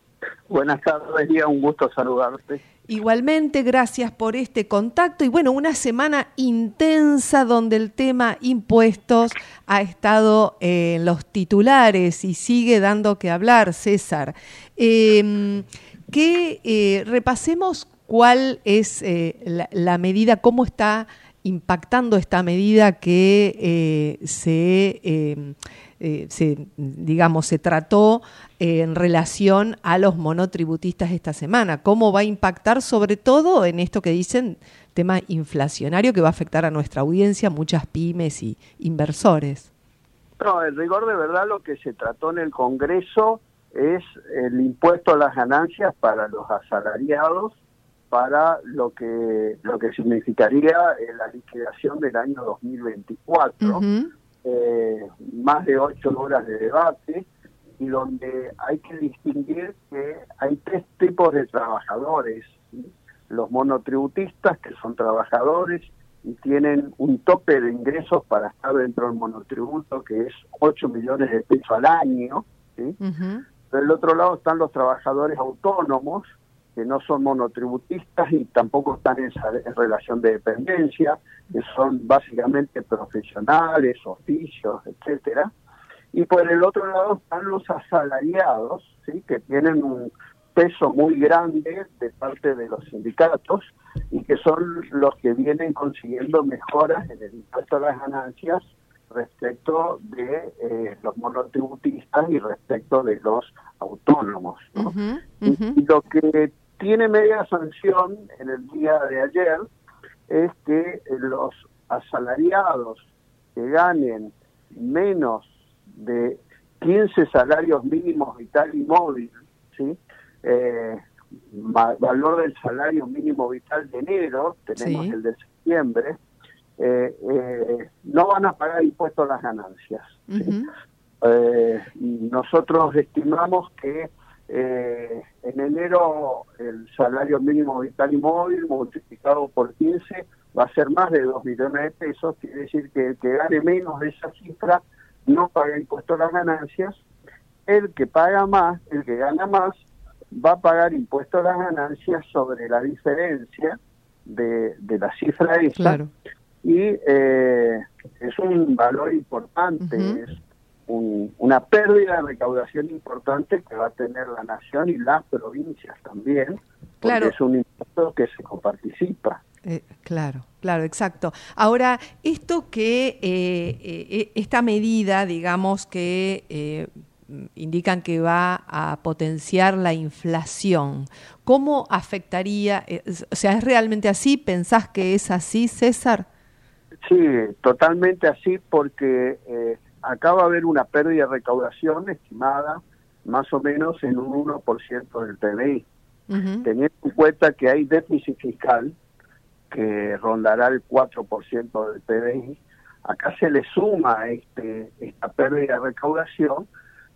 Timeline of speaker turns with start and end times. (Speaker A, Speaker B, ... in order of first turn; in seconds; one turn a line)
Speaker A: 0.5-2.6
Speaker B: 2.9-39.7
Speaker A: 40.4-47.5
Speaker A: 48.1-53.8
Speaker B: 53.6-54.1
Speaker A: 54.4-57.2
Speaker A: 57.8-73.0
Speaker B: 73.0-73.4
Speaker A: 73.7-85.5
Speaker A: 86.1-104.9
Speaker B: 104.8-105.8
Speaker A: 105.7-109.7
Speaker A: 110.3-113.0
Speaker A: 113.6-121.0
Speaker A: 121.5-126.2
Speaker B: 124.8-125.2
Speaker A: 126.8-130.5
Speaker B: 130.3-130.7
Speaker A: 131.2-146.9
Speaker A: 147.7-149.8
Speaker A: 150.3-156.0
Speaker B: 155.8-156.1
Speaker A: 156.6-160.3
Speaker B: 159.8-160.2
Speaker A: 160.9-169.4
Speaker B: 167.0-167.3
Speaker B: 169.6-186.3
Speaker A: 187.1-195.9
Speaker B: 196.3-196.7
Speaker A: 196.6-198.9
Speaker A: 199.7-206.7